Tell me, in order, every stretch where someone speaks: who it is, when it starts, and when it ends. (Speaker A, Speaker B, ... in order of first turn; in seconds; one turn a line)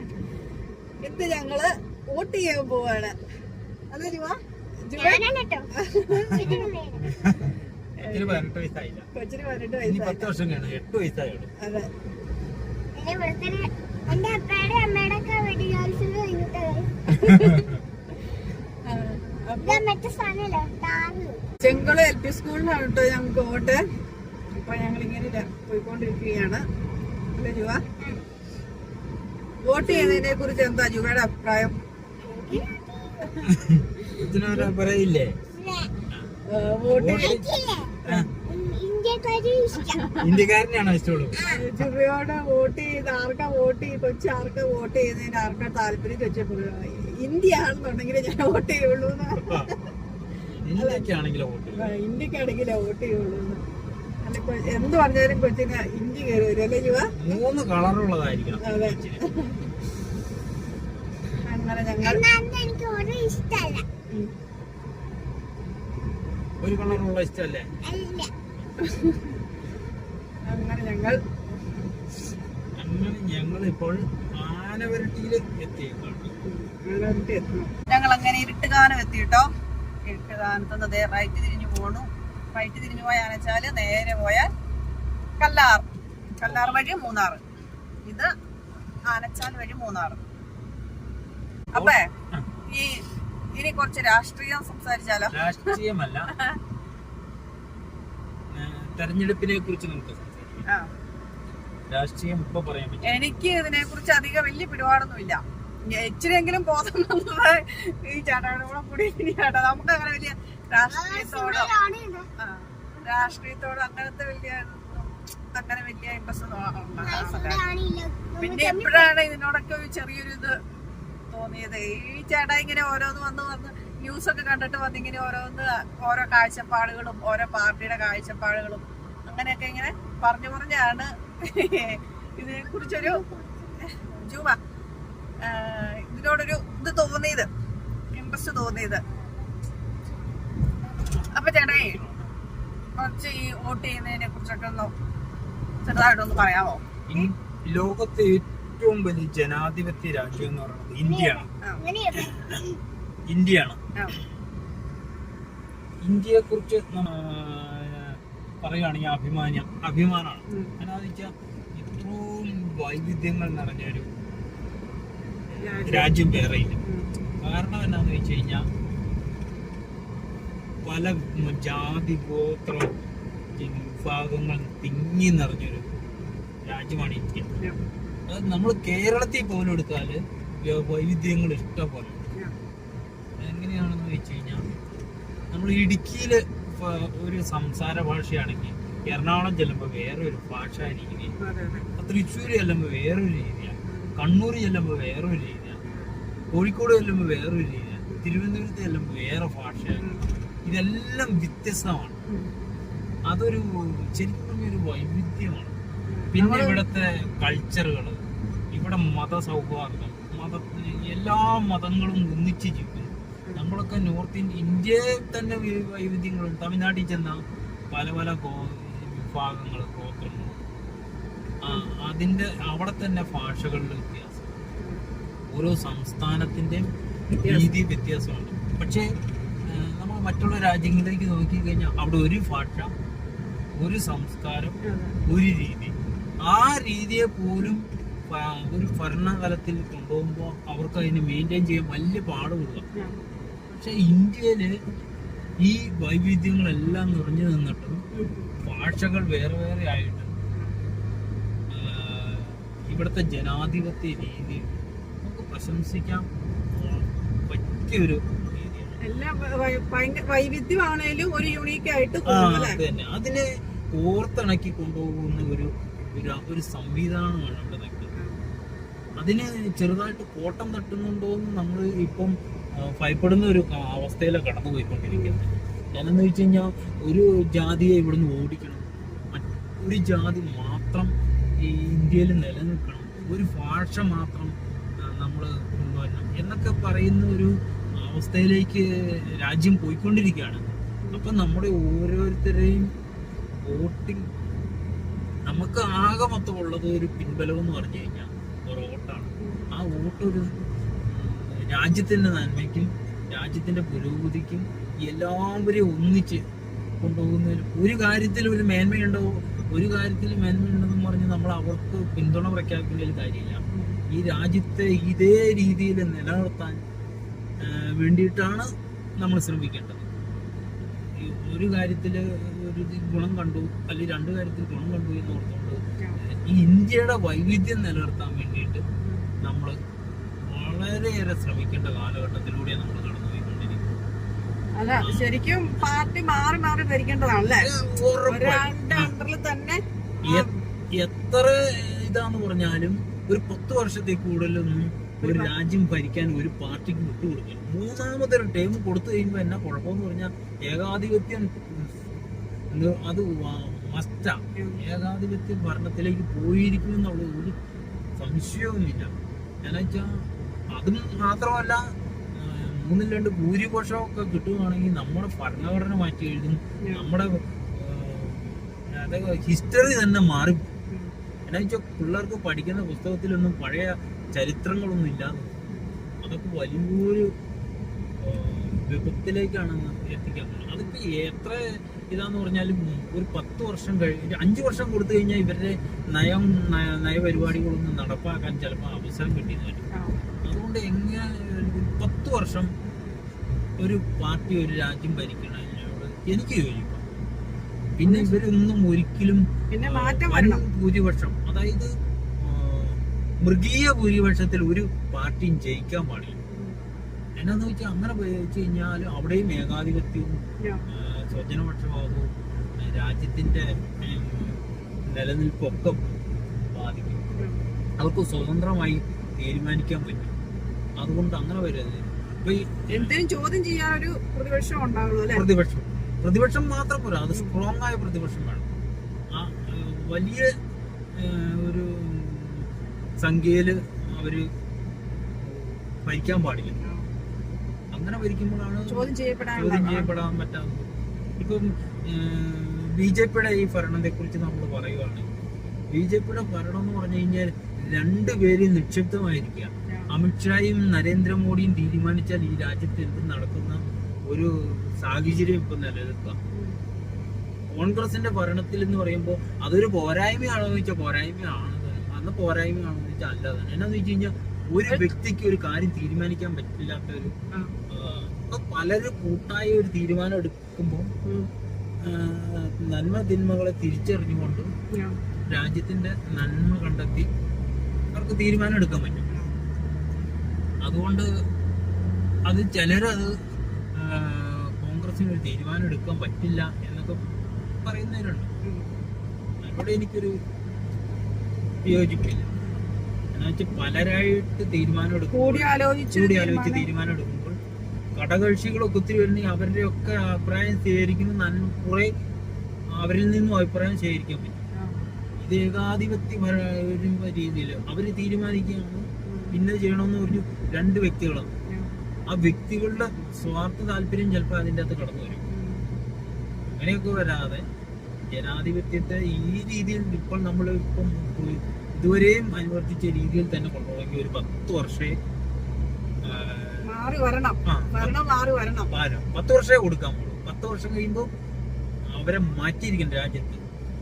Speaker A: 1.0-3.1
Speaker A: 3.9-5.2
Speaker B: 5.0-5.7
Speaker A: 5.8-6.7
Speaker C: 6.1-6.5
Speaker B: 6.3-7.1
Speaker C: 7.0-7.5
Speaker A: 8.0-8.4
Speaker C: 8.1-9.1
Speaker A: 9.1-10.3
Speaker C: 9.8-11.5
Speaker A: 11.6-11.9
Speaker B: 12.9-17.2
Speaker A: 17.2-17.7
Speaker C: 17.2-17.7
Speaker A: 18.9-19.8
Speaker B: 19.6-21.4
Speaker A: 21.6-23.8
Speaker A: 24.6-26.6
Speaker A: 27.3-27.8
Speaker A: 29.6-31.7
Speaker B: 29.8-30.2
Speaker B: 32.2-33.5
Speaker C: 33.4-35.3
Speaker A: 34.2-34.7
Speaker B: 35.5-36.0
Speaker A: 36.5-37.4
Speaker C: 36.9-37.5
Speaker B: 37.1-40.2
Speaker C: 40.2-41.4
Speaker B: 41.3-41.6
Speaker A: 41.5-49.8
Speaker C: 49.3-49.6
Speaker C: 50.6-51.9
Speaker A: 50.8-51.0
Speaker A: 51.7-53.6
Speaker A: 54.2-57.1
Speaker C: 57.2-59.2
Speaker A: 58.6-59.6
Speaker A: 61.5-62.2
Speaker B: 62.0-63.8
Speaker C: 66.6-67.7
Speaker B: 67.8-68.3
Speaker A: 68.8-69.2
Speaker A: 70.5-71.2
Speaker C: 72.8-76.3
Speaker A: 76.4-79.5
Speaker A: 80.1-84.5
Speaker A: 85.4-85.9
Speaker A: 86.4-87.4
Speaker C: 86.4-86.8
Speaker A: 88.0-88.3
Speaker A: 89.0-90.2
Speaker A: 91.7-92.1
Speaker C: 91.7-92.5
Speaker A: 92.7-93.0
Speaker A: 93.5-95.4
Speaker C: 95.3-96.3
Speaker C: 98.5-100.6
Speaker C: 101.9-103.1
Speaker A: 103.0-111.7
Speaker B: 110.9-112.3
Speaker A: 112.4-117.6
Speaker B: 117.0-119.1
Speaker A: 118.4-120.5
Speaker A: 121.3-133.2
Speaker B: 132.7-133.8
Speaker A: 134.0-134.6
Speaker A: 135.4-137.5
Speaker A: 138.1-139.0
Speaker A: 141.2-142.0
Speaker C: 141.8-142.2
Speaker A: 143.0-144.9
Speaker A: 145.8-147.3
Speaker C: 147.1-151.5
Speaker B: 151.0-152.8
Speaker C: 153.3-153.8
Speaker C: 156.0-164.1
Speaker A: 160.5-160.7
Speaker C: 165.5-166.8
Speaker A: 165.6-166.1
Speaker C: 167.4-168.7
Speaker C: 170.8-172.9
Speaker C: 173.5-175.9
Speaker C: 176.6-177.5
Speaker C: 178.3-182.2
Speaker C: 183.4-184.6
Speaker C: 185.5-191.3
Speaker A: 191.4-191.9
Speaker C: 192.0-195.8
Speaker A: 193.9-194.1
Speaker C: 196.5-200.0
Speaker A: 200.0-200.2
Speaker C: 200.6-202.2
Speaker C: 203.2-205.7
Speaker A: 206.1-206.8
Speaker C: 206.3-220.6
Speaker C: 221.6-224.6
Speaker C: 225.5-226.9
Speaker A: 227.4-227.7
Speaker C: 227.4-229.1
Speaker C: 229.7-232.9
Speaker C: 233.8-242.8
Speaker A: 234.8-235.2
Speaker C: 243.7-244.8
Speaker C: 245.6-248.0
Speaker A: 248.1-248.5
Speaker C: 248.6-250.3
Speaker A: 250.5-250.8
Speaker C: 251.7-259.0
Speaker A: 259.0-262.8
Speaker C: 262.3-268.1
Speaker C: 269.2-292.9
Speaker A: 275.1-275.4
Speaker C: 293.6-294.2
Speaker C: 295.5-300.5
Speaker A: 299.4-299.7
Speaker C: 301.1-306.4
Speaker C: 307.0-316.8
Speaker A: 313.7-314.0
Speaker C: 317.6-320.1
Speaker C: 321.1-328.8
Speaker A: 329.0-329.3
Speaker C: 329.4-329.8
Speaker C: 330.5-333.9
Speaker A: 334.8-337.7
Speaker C: 335.0-335.3
Speaker C: 337.6-339.1
Speaker A: 338.3-340.6
Speaker C: 340.2-351.9
Speaker A: 345.2-345.5
Speaker C: 352.7-357.6
Speaker A: 354.6-354.8
Speaker C: 358.2-359.1
Speaker C: 359.6-360.2
Speaker C: 360.7-370.7
Speaker A: 366.8-367.1
Speaker C: 371.5-375.6
Speaker C: 376.2-377.3
Speaker C: 378.2-389.8
Speaker C: 390.4-392.7
Speaker C: 393.8-397.0
Speaker C: 398.0-401.9
Speaker A: 398.0-398.4
Speaker A: 399.7-400.6
Speaker C: 402.4-406.4
Speaker A: 406.5-406.8
Speaker C: 407.4-410.4
Speaker C: 410.9-416.0
Speaker C: 416.7-417.2
Speaker C: 418.0-420.3
Speaker C: 421.0-423.1
Speaker A: 422.9-425.4
Speaker C: 425.3-428.6
Speaker A: 427.3-427.6
Speaker C: 429.3-430.5
Speaker C: 431.1-432.7
Speaker C: 433.2-434.5
Speaker C: 435.4-436.8
Speaker A: 436.8-437.1
Speaker C: 437.9-445.3
Speaker A: 438.9-440.1
Speaker C: 445.9-456.4
Speaker C: 457.7-467.3
Speaker C: 467.9-471.1
Speaker C: 472.0-474.7
Speaker A: 474.9-475.2
Speaker C: 475.5-477.3
Speaker C: 478.1-479.2
Speaker A: 479.3-479.5
Speaker C: 480.8-481.3
Speaker C: 482.5-483.3
Speaker C: 483.9-487.2
Speaker C: 487.8-488.5
Speaker A: 488.6-488.9
Speaker C: 489.6-490.4
Speaker C: 491.8-492.5
Speaker C: 493.3-497.6
Speaker A: 495.3-496.9
Speaker C: 498.1-502.1
Speaker C: 502.9-504.6
Speaker A: 504.8-505.0
Speaker C: 505.4-511.5
Speaker A: 509.2-509.6
Speaker C: 512.3-515.4
Speaker A: 515.5-515.9
Speaker C: 516.7-517.6
Speaker C: 518.3-525.2
Speaker C: 526.2-526.9
Speaker A: 526.8-528.9
Speaker C: 527.7-528.2
Speaker C: 528.9-531.3
Speaker C: 532.1-533.6